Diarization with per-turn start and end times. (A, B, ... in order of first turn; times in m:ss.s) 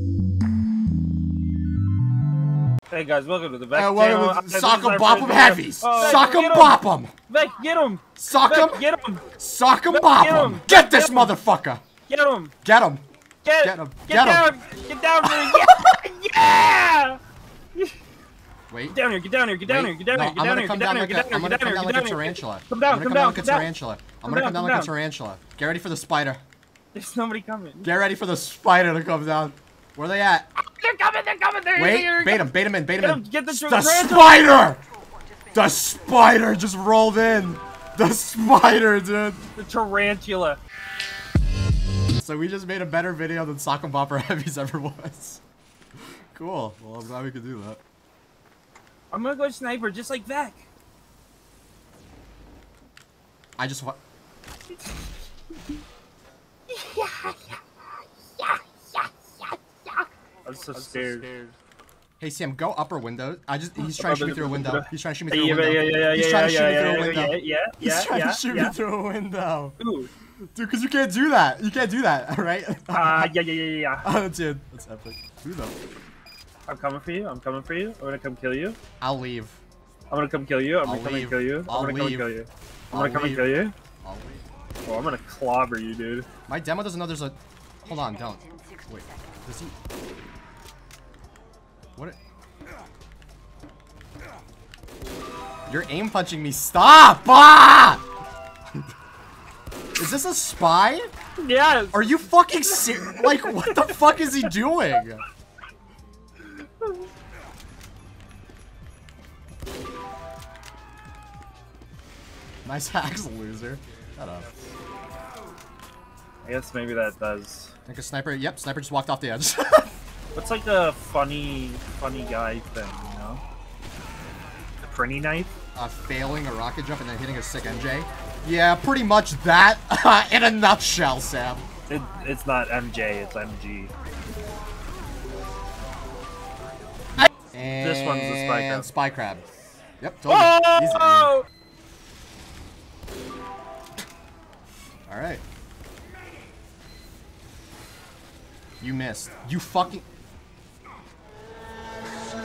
0:02.9-0:09.2 A
0:03.7-0:07.1 B
0:08.2-0:08.8 B
0:09.4-0:11.8 B
0:09.9-0:11.4 A
0:12.1-0:12.5 A
0:12.6-0:13.0 B
0:13.4-0:17.2 A
0:13.6-0:14.5 B
0:15.2-0:15.7 B
0:18.7-0:19.0 B
0:18.9-0:23.7 A
0:19.6-0:26.4 B
0:24.2-0:24.9 A
0:26.9-0:27.9 A
0:27.8-0:30.5 B
0:30.6-0:34.4 A
0:31.7-0:34.8 B
0:35.5-0:39.4 B
0:39.6-0:40.6 A
0:42.2-0:45.4 B
0:46.3-0:47.8 B
0:49.1-0:50.6 A
0:53.6-0:54.0 B
0:56.7-0:57.6 A
0:58.4-0:59.1 A
1:00.4-1:01.3 A
1:02.2-1:09.8 B
1:03.8-1:08.7 A
1:09.8-1:10.1 A
1:10.5-1:13.3 B
1:12.9-1:14.1 A
1:14.0-1:15.7 B
1:16.7-1:18.8 A
1:19.0-1:19.6 B
1:20.1-1:23.7 A
1:20.8-1:22.3 B
1:22.9-1:23.5 B
1:24.0-1:24.4 B
1:24.8-1:26.3 A
1:26.5-1:29.7 B
1:35.7-1:38.0 B
1:40.0-1:41.1 B
1:41.4-1:42.0 A
1:41.9-1:45.2 B
1:42.6-1:43.9 A
1:46.5-1:46.9 A
1:52.6-1:54.5 B
1:56.4-1:57.7 A
1:57.8-1:59.9 B
2:00.3-2:03.4 A
2:04.8-2:05.5 A
2:05.7-2:11.6 B
2:11.9-2:13.9 A
2:17.2-2:19.4 B
2:17.8-2:18.9 A
2:20.0-2:21.4 B
2:20.3-2:21.4 A
2:25.1-2:25.4 B
2:28.8-2:30.0 B